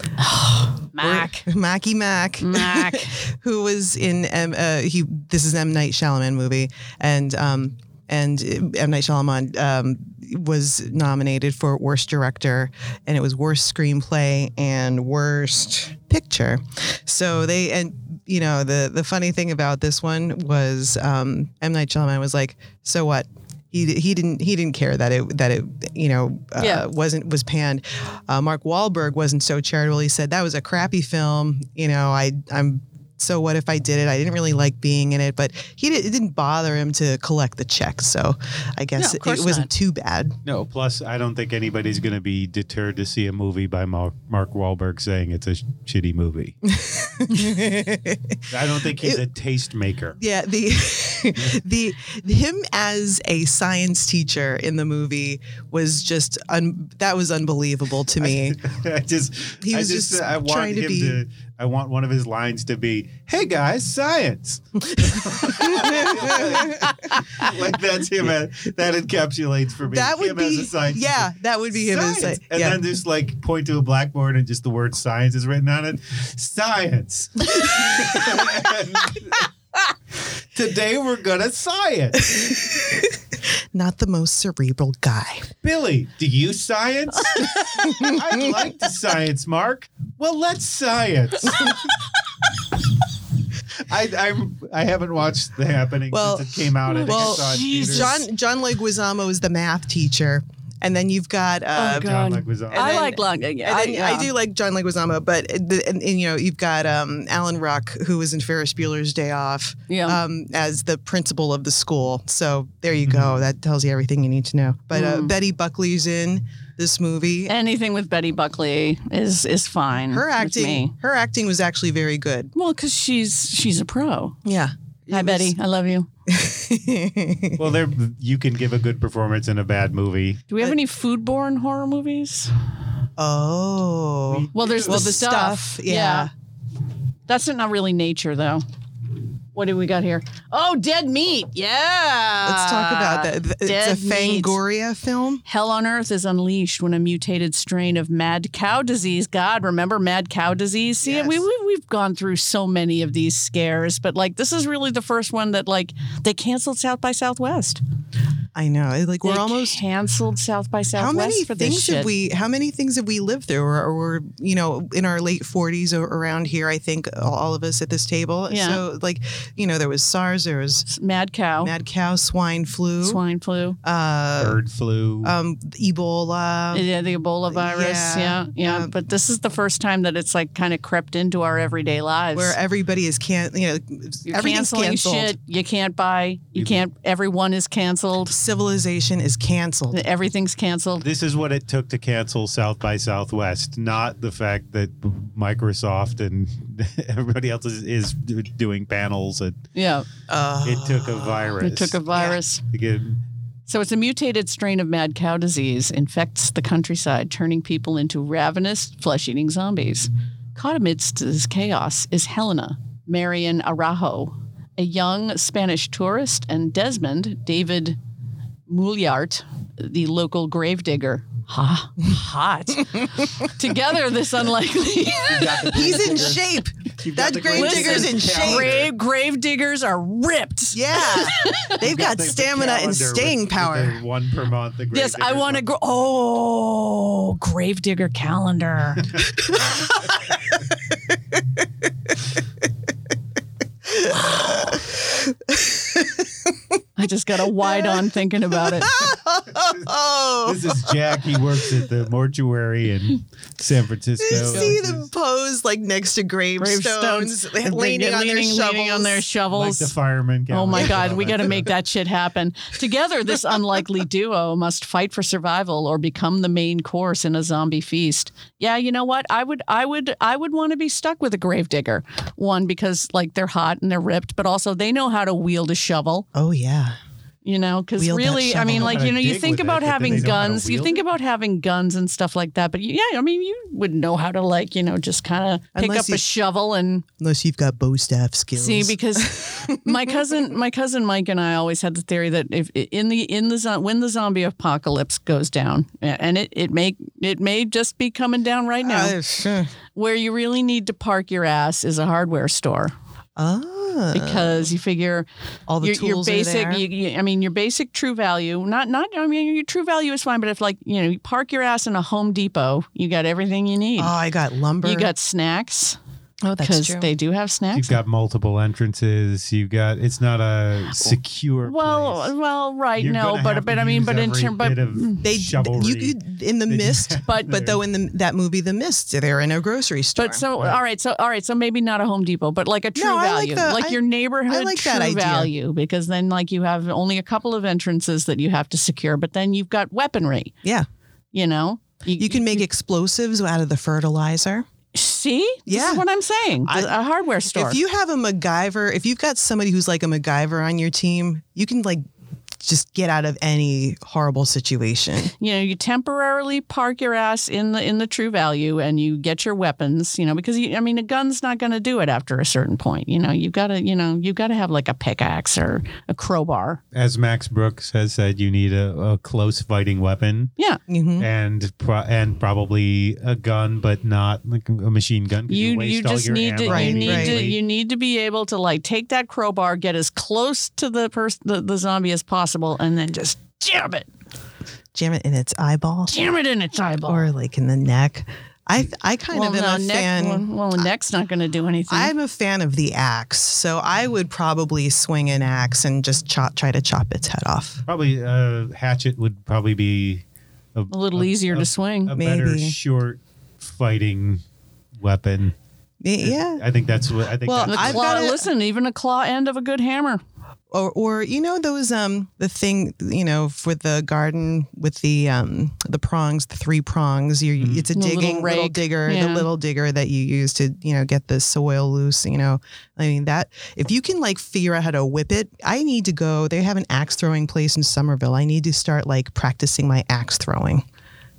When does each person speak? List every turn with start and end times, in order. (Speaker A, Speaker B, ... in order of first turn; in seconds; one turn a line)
Speaker A: 0.2-1.5
Speaker B: 1.0-40.4
Speaker A: 2.4-3.2
Speaker A: 26.6-26.8
Speaker A: 39.0-39.7
Speaker C: 40.5-46.6
Speaker B: 46.7-49.2
Speaker C: 48.5-50.2
Speaker B: 50.2-58.6
Speaker C: 58.2-79.5
Speaker B: 59.6-61.2
Speaker B: 64.9-67.0
Speaker B: 69.9-72.8
Speaker C: 80.5-82.3
Speaker B: 82.3-83.2
Speaker B: 83.7-85.5
Speaker C: 85.6-92.0
Speaker B: 87.8-88.5
Speaker C: 93.9-98.2
Speaker B: 96.1-117.5
Speaker A: 96.9-98.2
Speaker A: 101.8-104.3
Speaker C: 101.8-103.0
Speaker A: 109.9-110.2
Speaker C: 113.1-113.4
Speaker A: 114.9-115.3
Speaker A: 117.5-120.9
Speaker B: 120.1-122.5
Speaker A: 122.5-124.4
Speaker B: 124.4-125.5
Speaker A: 125.1-126.1
Speaker B: 126.3-127.7
Speaker C: 127.6-130.5
Speaker A: 130.5-132.5
Speaker B: 133.2-136.3
Speaker C: 134.3-135.2
Speaker A: 134.5-136.3
Speaker A: 137.3-138.6
Speaker A: 139.5-144.6
Speaker B: 142.4-145.4
Speaker A: 145.4-157.8
Speaker B: 151.0-151.4
Speaker B: 158.5-159.8
Speaker A: 159.2-162.1
Speaker B: 160.9-170.9
Speaker A: 168.5-168.8
Speaker A: 170.9-171.7
Speaker B: 171.6-173.2
Speaker A: 173.0-173.8
Speaker B: 173.8-174.6
Speaker C: 174.4-175.3
Speaker B: 175.2-176.8
Speaker A: 176.7-182.6
Speaker B: 177.5-178.9
Speaker B: 182.3-185.3
Speaker A: 184.3-188.3
Speaker B: 188.3-190.0
Speaker A: 189.9-191.0
Speaker C: 191.0-199.6
Speaker A: 199.7-200.1
Speaker B: 200.3-201.6
Speaker C: 200.6-202.0
Speaker A: 201.6-202.6
Speaker C: 202.7-203.2
Speaker A: 203.7-218.0
Speaker A: 218.7-226.0
Speaker C: 225.2-226.4
Speaker B: 225.7-228.8
Speaker C: 227.0-228.9
Speaker A: 227.5-231.8
Speaker B: 230.7-234.0
Speaker C: 231.8-235.6
Speaker A: 234.9-239.1
Speaker B: 244.0-246.3
Speaker A: 244.1-244.7
Speaker A: 247.0-248.9
Speaker B: 247.6-251.1
Speaker C: 250.4-255.1
Speaker B: 254.2-259.2
Speaker A: 254.3-254.8
Speaker A: 256.6-259.9
Speaker C: 259.5-261.7
Speaker A: 260.5-276.2
Speaker B: 276.3-277.0
Speaker A: 277.4-287.0
Speaker B: 278.0-279.0
Speaker C: 278.7-281.0
Speaker B: 280.1-280.4
Speaker B: 285.7-286.2
Speaker B: 287.2-290.4
Speaker A: 288.6-299.1
Speaker B: 298.8-299.7
Speaker A: 299.9-302.9
Speaker B: 303.4-304.7
Speaker A: 304.1-305.3
Speaker B: 305.7-306.8
Speaker A: 305.8-314.1
Speaker B: 314.0-315.1
Speaker A: 314.8-316.0
Speaker B: 316.4-317.1
Speaker A: 316.6-318.0
Speaker C: 317.7-322.3
Speaker A: 321.6-325.2
Speaker C: 323.0-326.2
Speaker B: 325.2-330.4
Speaker C: 326.7-327.8
Speaker A: 327.2-327.6
Speaker A: 330.2-340.5
Speaker B: 332.9-335.5
Speaker A: 341.3-342.6
Speaker B: 342.1-344.6
Speaker A: 344.9-347.8
Speaker B: 345.7-346.0
Speaker B: 346.6-346.9
Speaker B: 347.5-352.0
Speaker B: 352.6-355.3
Speaker A: 355.4-366.8
Speaker C: 366.9-370.5
Speaker B: 370.9-371.3
Speaker C: 371.2-377.6
Speaker A: 375.5-384.1
Speaker B: 376.6-377.5
Speaker B: 384.9-386.1
Speaker A: 386.1-387.3
Speaker B: 387.1-390.9
Speaker A: 389.3-392.1
Speaker B: 391.9-397.8
Speaker C: 397.9-400.2
Speaker C: 400.7-404.4
Speaker A: 400.9-402.1
Speaker B: 402.1-402.8
Speaker C: 405.0-405.5
Speaker B: 406.0-406.6
Speaker C: 406.2-408.2
Speaker B: 407.4-408.4
Speaker A: 407.6-410.2
Speaker B: 410.7-430.8
Speaker C: 417.6-417.9
Speaker A: 417.9-419.4